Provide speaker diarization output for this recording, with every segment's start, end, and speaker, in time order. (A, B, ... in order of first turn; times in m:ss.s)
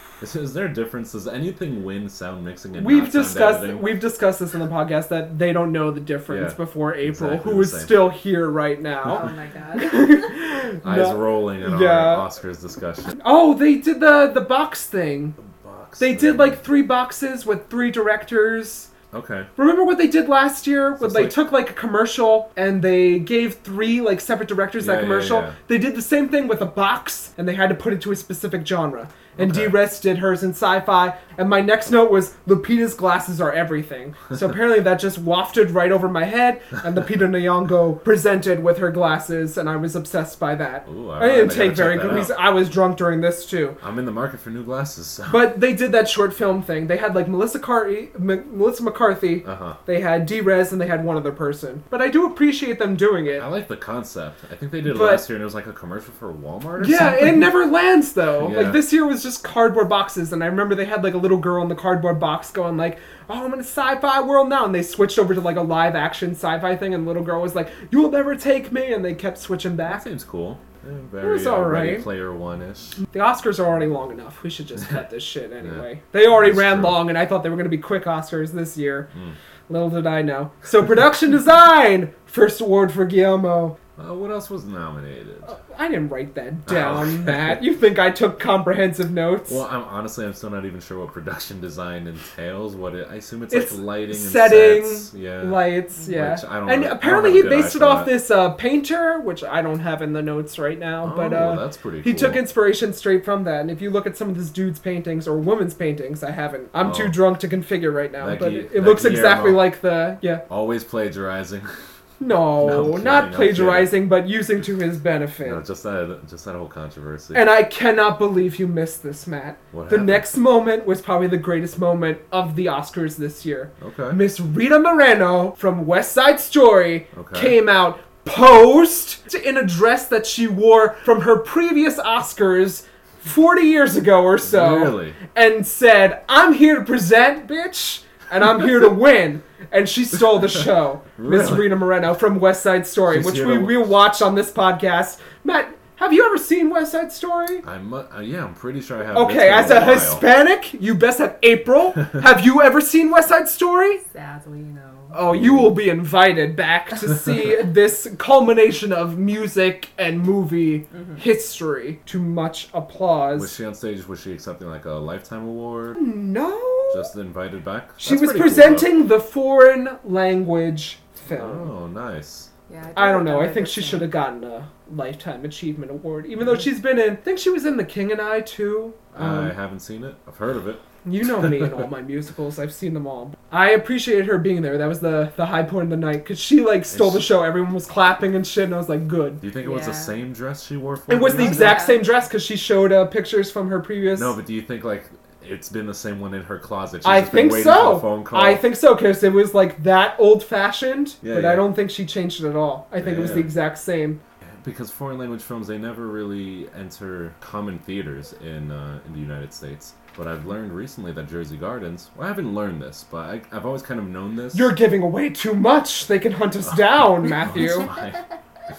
0:00.2-0:04.0 A
0:02.8-0:09.2 B
0:06.3-0:08.0 A
0:09.0-0:09.3 A
0:09.0-0:10.2 C
0:09.8-0:12.3 B
0:10.8-0:13.2 A
0:13.2-0:15.4 B
0:15.4-0:16.6 A
0:16.0-0:18.9 B
0:19.1-0:19.5 A
0:19.6-0:43.8 B
0:21.0-0:21.4 A
0:24.8-0:25.6 A
0:29.4-0:29.8 A
0:40.8-0:42.4 A
0:43.8-0:45.5 A
0:45.3-0:53.4 B
0:49.4-0:49.8 A
0:53.3-0:57.5 A
0:54.8-0:55.2 B
0:56.8-1:10.0 B
0:58.3-0:58.8 A
1:09.8-1:13.0 A
1:11.2-1:12.1 B
1:13.0-1:19.1 B
1:15.6-1:17.0 A
1:19.7-1:23.8 B
1:24.0-1:25.6 A
1:25.4-1:29.6 B
1:26.7-1:27.6 A
1:29.5-1:38.1 A
1:33.5-1:50.4 B
1:41.0-1:42.4 A
1:46.8-1:47.2 A
1:48.2-1:49.8 A
1:50.4-1:51.8 A
1:52.2-1:55.6 B
1:52.6-1:54.0 A
1:55.4-1:57.4 A
1:57.3-2:27.6 B
1:59.7-2:00.3 A
2:03.8-2:04.2 A
2:07.1-2:07.6 A
2:14.4-2:15.2 A
2:21.2-2:21.8 A
2:23.1-2:24.0 A
2:27.6-2:30.2 A
2:29.1-2:34.0 B
2:34.0-2:35.2 C
2:35.1-2:43.5 B
2:35.3-2:35.7 A
2:40.9-2:41.2 C
2:43.3-2:46.0 A
2:46.0-2:47.1 B
2:46.9-2:49.0 A
2:48.0-2:51.7 B
2:51.3-2:52.5 A
2:52.7-2:54.1 C
2:53.0-2:59.5 B
2:59.1-3:01.8 A
3:01.0-3:09.4 B
3:06.9-3:07.3 A
3:09.4-3:11.8 A
3:09.6-3:10.2 C
3:11.1-3:14.3 B
3:11.3-3:12.0 C
3:14.1-3:18.6 A
3:17.0-3:24.2 B
3:21.2-3:21.7 A
3:23.0-3:23.5 A
3:24.4-3:34.7 A
3:34.5-3:37.9 B
3:36.6-3:38.2 A